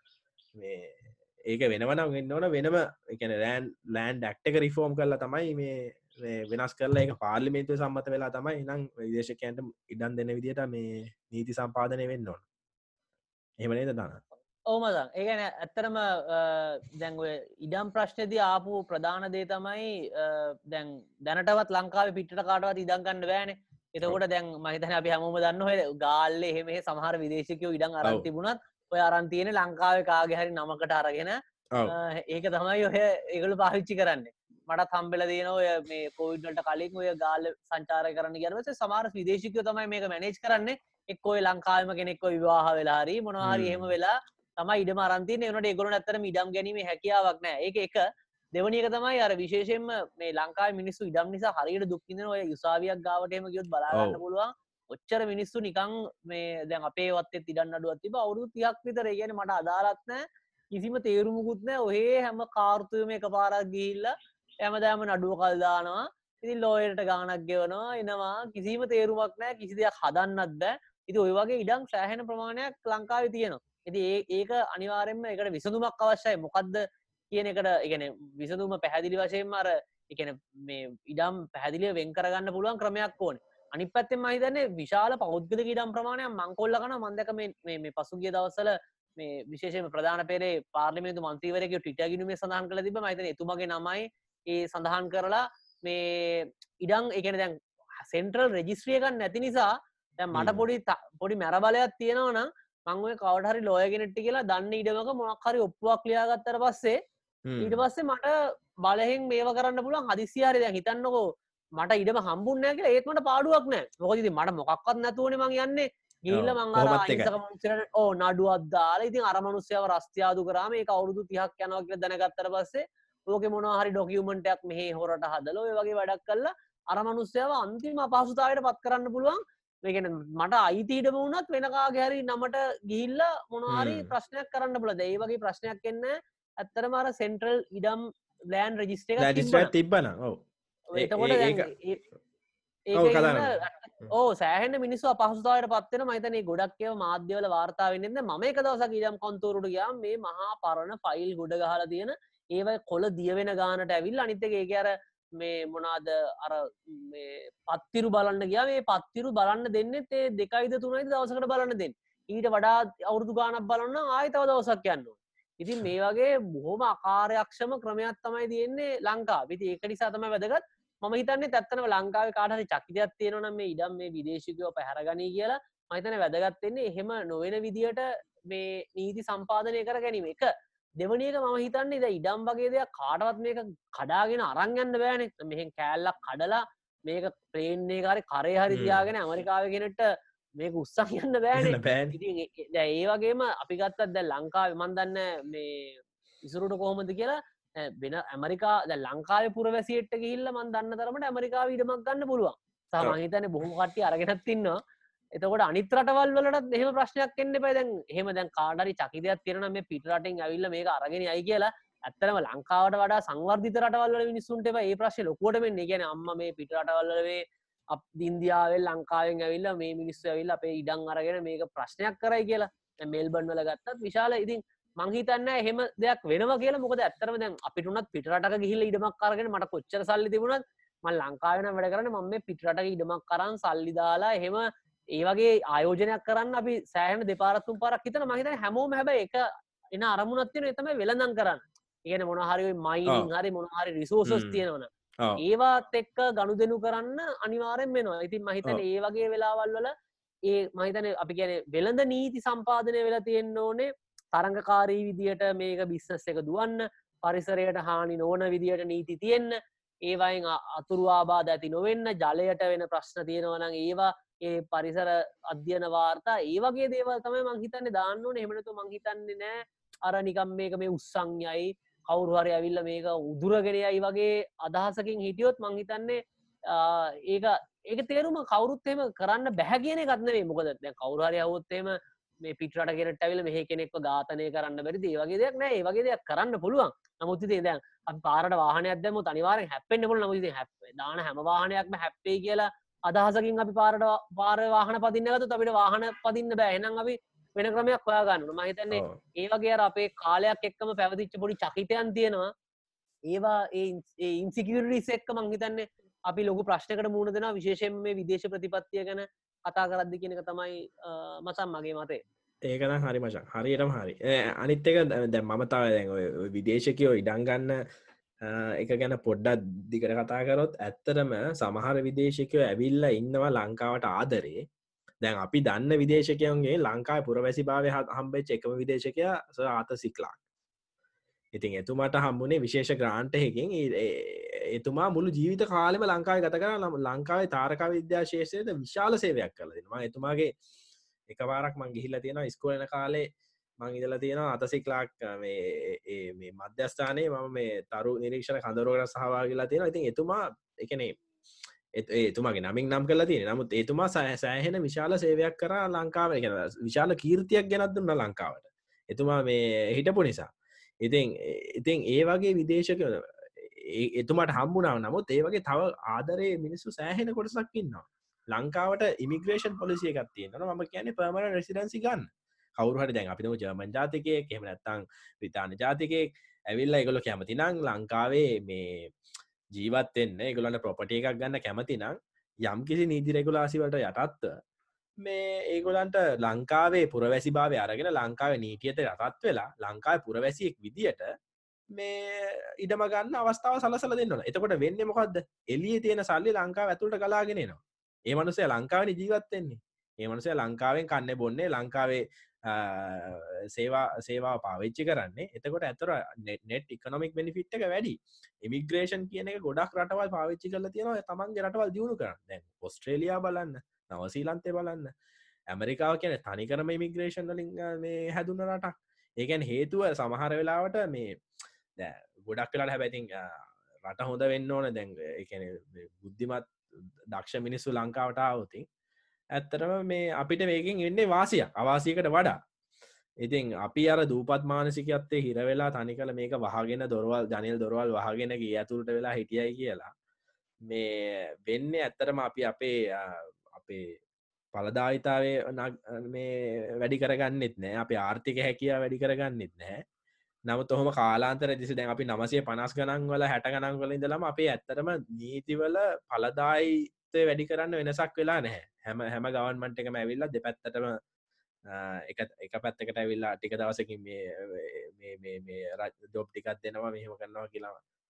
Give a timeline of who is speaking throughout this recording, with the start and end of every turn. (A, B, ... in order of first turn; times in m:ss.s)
0:00.6-0:12.4 A
0:13.6-0:14.2 A
0:14.7-0:48.0 B
0:43.4-0:43.9 A
0:48.5-1:37.5 B
0:53.9-0:54.2 A
1:38.0-1:47.0 B
1:40.3-1:40.6 A
1:47.4-1:47.8 A
1:47.6-1:48.3 B
1:48.8-1:51.2 B
1:51.8-2:19.7 B
1:56.3-1:57.3 A
2:13.7-2:14.1 A
2:19.2-2:20.4 A
2:20.9-2:22.0 B
2:21.0-2:21.7 A
2:22.9-3:00.5 B
2:23.0-2:23.5 A
3:01.0-3:24.8 B
3:08.7-3:09.1 A
3:11.6-3:12.2 A
3:25.4-3:59.4 B
3:59.9-4:09.9 B
4:04.3-4:04.6 A
4:10.5-5:02.5 B
4:58.9-4:59.2 A
5:03.3-5:12.2 B
5:12.6-5:17.8 A
5:18.4-5:24.6 A
5:25.2-5:30.4 A
5:31.6-5:40.5 A
5:41.3-5:43.3 A
5:43.8-5:51.2 A
5:52.0-6:00.5 A
6:01.0-6:19.1 A
6:19.7-6:24.5 A
6:25.2-6:31.3 A
6:31.9-6:55.1 A
6:55.7-7:01.3 A
7:02.0-7:06.7 A
7:07.3-7:08.8 A
7:09.6-7:12.6 A
7:13.4-7:20.1 A
7:20.8-7:24.2 A
7:24.7-7:30.0 A
7:30.7-7:41.2 A
7:41.9-7:48.0 A